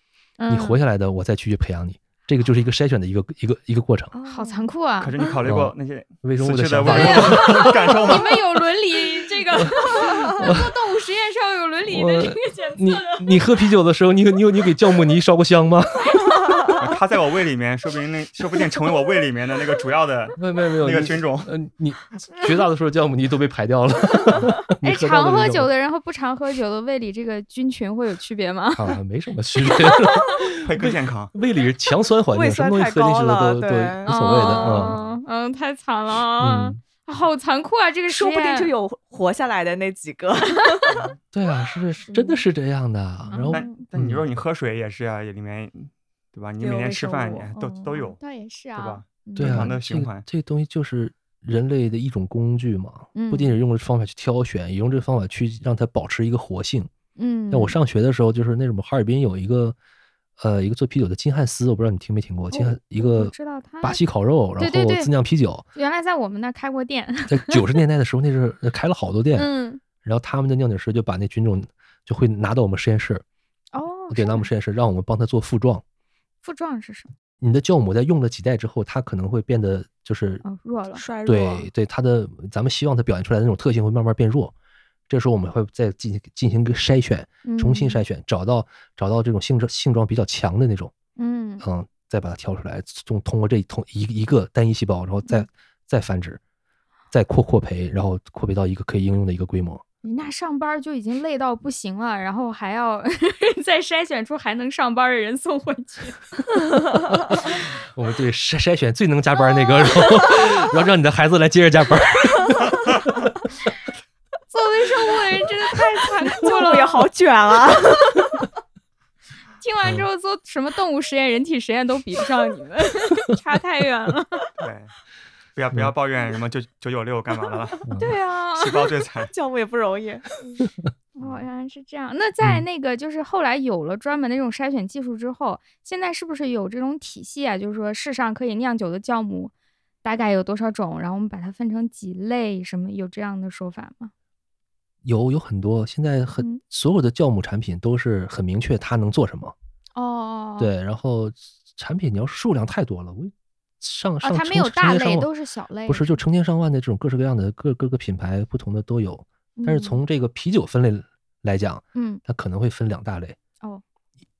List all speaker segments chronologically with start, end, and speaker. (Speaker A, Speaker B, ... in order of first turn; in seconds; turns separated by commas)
Speaker A: 0.4-0.8, Speaker B: 0.5-4.1, Speaker C: 4.1-4.7, Speaker A: 4.3-5.2, Speaker D: 5.0-8.4, Speaker B: 5.4-8.3, Speaker A: 6.9-13.3, Speaker B: 9.6-10.7, Speaker B: 11.9-16.7, Speaker A: 16.0-16.4, Speaker D: 16.8-21.5, Speaker B: 20.4-25.7, Speaker A: 24.8-29.0, Speaker B: 28.8-35.0, Speaker A: 29.6-30.3, Speaker D: 30.6-31.3, Speaker C: 32.3-35.0, Speaker A: 34.0-38.7, Speaker B: 36.4-36.8, Speaker C: 38.1-41.1, Speaker D: 40.9-41.1, Speaker B: 41.3-44.2, Speaker A: 42.0-42.4, Speaker A: 43.3-43.8, Speaker D: 43.5-48.2, Speaker C: 46.6-48.1, Speaker A: 48.2-49.8, Speaker D: 48.8-50.2, Speaker B: 49.4-56.9, Speaker A: 53.1-53.6, Speaker A: 57.2-57.7, Speaker B: 57.5-59.8, Speaker B: 60.4-65.6, Speaker A: 62.5-64.0, Speaker A: 64.6-65.1, Speaker A: 65.7-67.6, Speaker B: 67.3-69.5, Speaker A: 69.3-69.8, Speaker B: 70.0-73.2, Speaker A: 73.7-74.5, Speaker B: 74.1-75.8, Speaker A: 76.4-77.1, Speaker B: 77.4-80.4, Speaker A: 80.4-81.0, Speaker C: 80.9-81.7, Speaker B: 81.2-84.5, Speaker B: 85.1-90.9, Speaker A: 87.4-88.0, Speaker A: 91.2-91.7, Speaker B: 91.6-96.4, Speaker B: 97.1-99.8, Speaker A: 100.0-106.2, Speaker B: 107.1-113.4, Speaker A: 114.5-117.1, Speaker C: 116.1-118.3, Speaker A: 119.6-124.5, Speaker D: 124.6-124.9, Speaker D: 125.5-127.9, Speaker B: 127.9-128.1, Speaker C: 127.9-130.2, Speaker A: 128.0-128.7, Speaker D: 128.5-129.3, Speaker A: 131.2-139.5, Speaker D: 131.2-131.5, Speaker A: 140.0-144.1, Speaker B: 145.0-149.5, Speaker A: 149.9-150.7, Speaker B: 150.6-155.3, Speaker A: 154.2-156.2, Speaker B: 155.9-163.4, Speaker A: 159.6-160.0, Speaker A: 161.9-162.2